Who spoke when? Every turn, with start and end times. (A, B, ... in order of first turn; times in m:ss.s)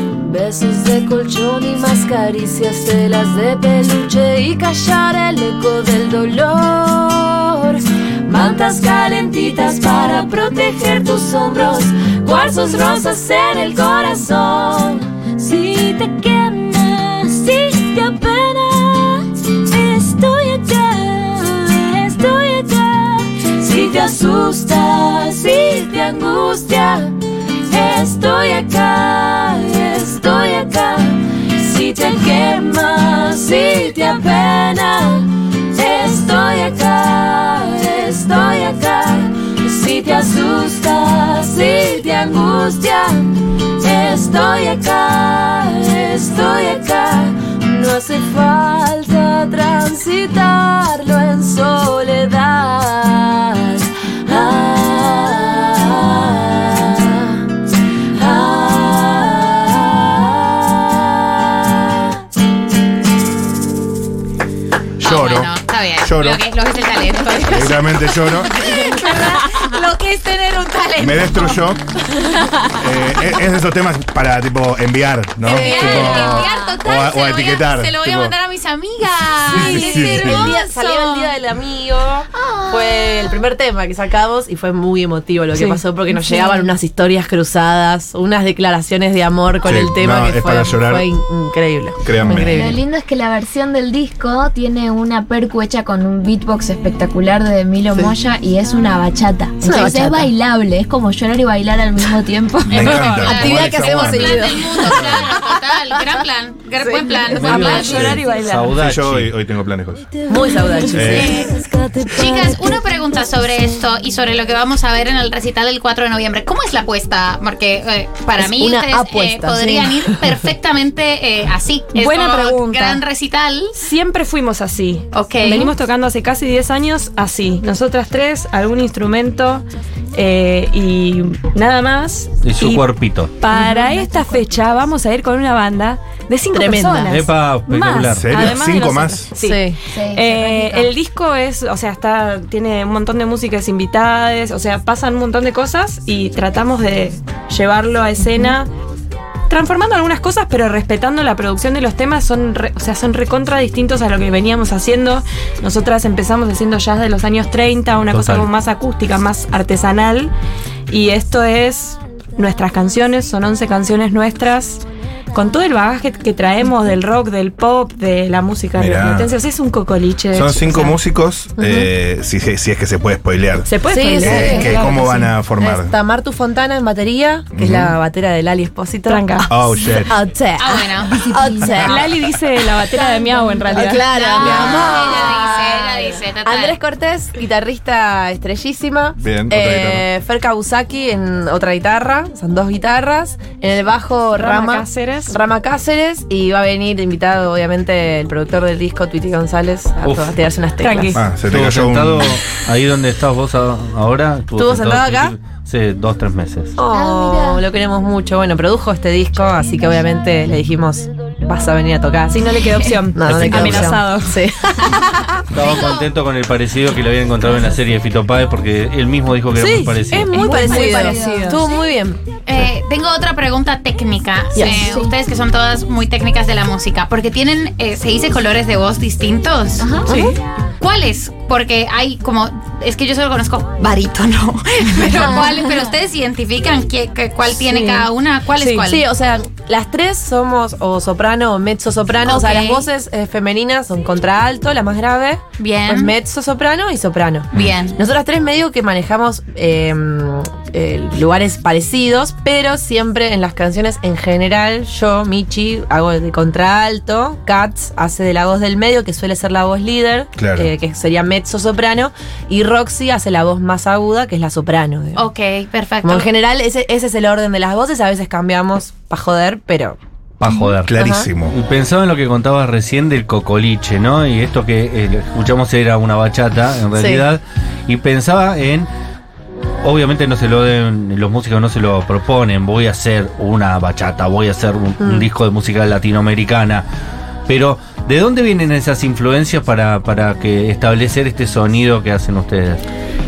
0:00.2-0:27.2 A
0:27.7-0:57.4 A
0:58.2-1:01.6 A
1:05.0-1:06.4 B
1:05.0-1:11.6 C
1:07.5-1:08.6 B
1:11.0-1:11.8 B
1:12.7-1:18.3 B
1:15.4-1:16.4 D
1:15.4-1:21.3 C
1:19.4-1:20.6 B
1:19.5-1:32.8 D
1:22.3-1:23.4 E
1:25.5-1:25.8 F
1:26.1-1:26.7 E
1:29.6-1:31.1 B
1:32.0-1:32.8 B
1:32.3-1:43.0 E
1:39.6-1:40.3 D
1:42.7-1:45.3 B
1:42.7-1:43.8 F
1:42.9-1:46.0 D
1:43.2-1:48.2 C
1:46.8-1:47.6 D
1:47.3-1:49.3 G
1:47.4-1:48.8 F
1:48.7-1:50.1 B
1:50.3-1:51.4 D
1:50.3-1:52.8 A
1:50.9-1:51.4 B
1:51.0-1:51.6 C
1:52.1-2:03.8 C
1:58.4-2:00.5 D
2:01.9-2:03.0 F
2:03.8-2:28.7 F
2:05.1-2:05.7 C
2:12.4-2:13.4 G
2:13.5-2:14.4 E
2:16.5-2:17.2 D
2:17.1-2:18.5 G
2:18.1-2:19.3 B
2:19.4-2:19.8 D
2:19.9-2:20.9 E
2:29.5-2:40.3 F
2:38.1-2:38.5 G
2:40.9-2:51.0 F
2:48.8-2:49.3 B
2:50.3-2:55.9 B
2:51.6-2:51.9 D
2:53.7-2:55.3 F
2:53.9-3:02.2 D
2:57.5-2:58.0 B
2:59.1-2:59.5 F
2:59.5-3:00.2 B
3:00.6-3:01.3 C
3:01.0-3:01.9 E
3:01.8-3:04.8 F
3:03.0-3:04.0 E
3:03.7-3:21.2 D
3:04.1-3:06.8 C
3:09.2-3:10.1 B
3:14.4-3:15.4 F
3:20.0-3:20.4 G
3:20.8-3:21.2 F
3:21.1-3:22.4 B
3:21.4-3:26.8 G
3:24.6-3:25.4 D
3:26.8-3:32.6 D
3:26.9-3:27.6 E
3:32.3-3:34.4 F
3:33.1-3:35.4 D
3:33.2-3:34.0 G
3:35.5-3:40.5 G
3:35.6-3:36.0 C
3:39.6-3:42.2 D
3:40.3-3:41.6 F
3:40.4-3:41.6 E
3:42.5-3:50.2 C
3:44.6-3:45.0 D
3:44.6-3:45.1 E
3:49.8-3:50.2 E
3:50.1-3:50.4 D
3:50.1-3:50.4 F
3:50.8-3:59.1 C
3:55.1-3:55.7 E
3:57.5-3:58.1 D
3:58.6-3:58.8 F
3:58.8-4:25.2 D
4:02.2-4:02.9 C
4:05.6-4:06.1 C
4:07.5-4:08.0 C
4:20.4-4:20.7 B
4:25.2-4:26.3 C
4:26.0-4:30.0 D
4:30.4-4:38.9 G
4:30.5-4:30.7 E
4:30.9-4:31.5 B
4:30.9-4:31.3 D
4:37.0-4:37.3 D
4:39.8-4:46.9 G
4:45.0-4:45.3 D
4:47.5-4:52.8 G